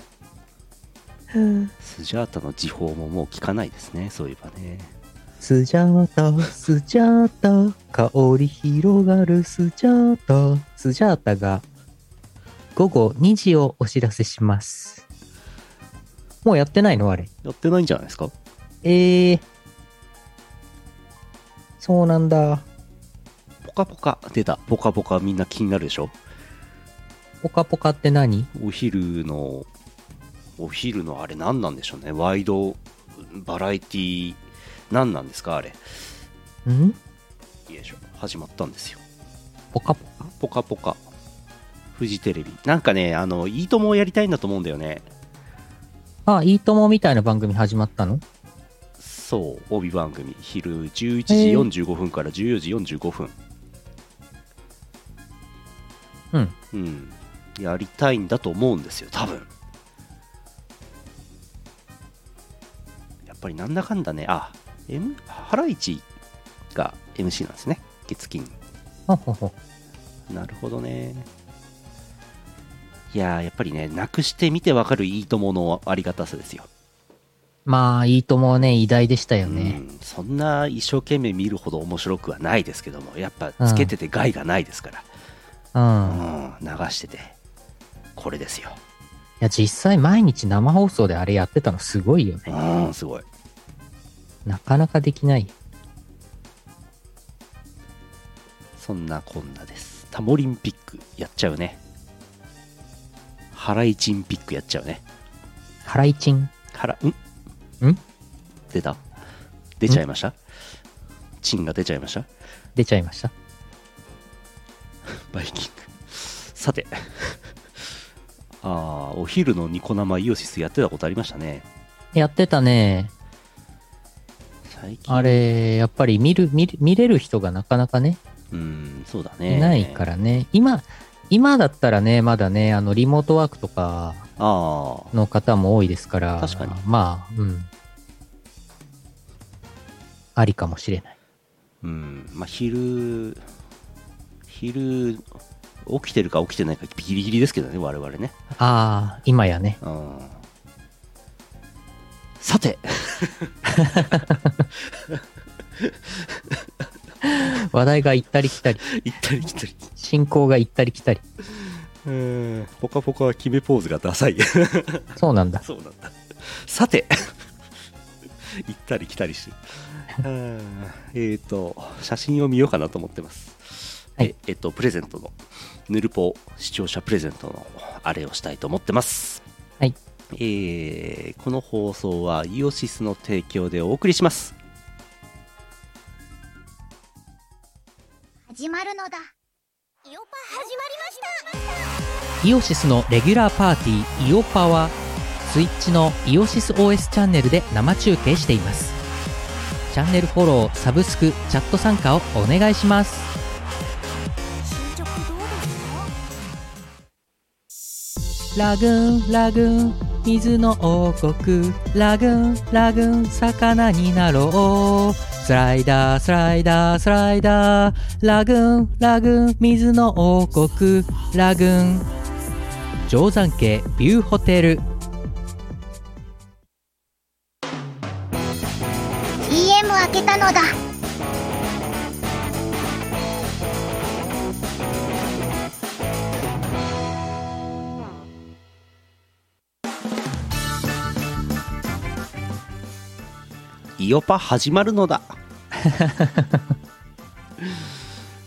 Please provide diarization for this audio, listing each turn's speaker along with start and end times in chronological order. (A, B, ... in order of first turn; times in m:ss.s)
0:01.4-0:01.7 A
0:01.8-0:04.9 B
0:05.4-0:11.6 A
0:12.8-0:15.0 A
0:16.4-0:17.3 A
0:17.4-0:18.3 B
0:18.8-0:19.4 A
0:21.8-0:22.6 A
0:23.6-0:26.2 B
0:27.4-0:28.5 A
0:28.5-0:29.7 B
0:30.6-0:35.8 B
0:36.7-0:37.0 A
0:37.7-0:39.0 B
0:39.7-0:40.3 A
0:40.4-0:41.0 B
0:42.0-0:45.1 B
0:46.3-0:48.2 A
0:49.0-0:53.4 B
0:51.3-0:51.7 A
0:56.7-0:59.5 B
1:03.2-1:06.0 B
1:06.7-1:08.6 B
1:09.1-1:09.5 A
1:10.3-1:11.3 B
1:13.1-1:16.7 B
1:17.7-1:19.8 A
1:19.4-1:25.1 B
1:23.6-1:23.9 A
1:25.8-1:26.2 A
1:26.1-1:27.4 B
1:28.2-1:28.8 B
1:29.4-1:32.6 A
1:32.5-1:33.2 B
1:34.5-1:35.5 A
1:38.8-1:41.8 B
1:43.5-1:45.0 B
1:45.8-1:46.5 A
1:46.7-1:47.2 B
1:48.7-1:49.1 B
1:49.8-1:50.4 B
1:51.4-1:52.3 B
1:52.8-1:53.3 A
1:55.0-1:57.9 B
1:58.6-2:01.7 B
2:02.1-2:03.1 A
2:04.7-2:05.4 B
2:05.1-2:08.2 A
2:08.5-2:10.1 B
2:09.5-2:14.3 A
2:14.4-2:15.1 B
2:15.1-2:17.7 A
2:16.4-2:16.8 B
2:20.4-2:21.1 A
2:21.8-2:23.4 B
2:24.5-2:25.2 B
2:25.8-2:28.4 B
2:28.6-2:29.8 A
2:29.8-2:30.4 B
2:32.4-2:33.6 B
2:33.9-2:34.3 A
2:34.9-2:35.2 B
2:35.8-2:36.7 B
2:37.2-2:38.8 A
2:38.8-2:39.9 B
2:40.0-2:41.2 A
2:42.0-2:47.4 B
2:45.2-2:45.6 A
2:48.4-2:55.4 B
2:55.9-2:59.4 B
3:00.3-3:04.6 B
3:08.5-3:09.2 C
3:10.0-3:12.0 C
3:12.4-3:19.0 A
3:19.9-3:23.3 A
3:24.6-3:26.1 C
3:28.6-3:42.1 A
3:43.1-3:44.8 A
3:49.5-3:50.7 C
4:04.0-4:05.4 B
4:05.9-4:06.6 A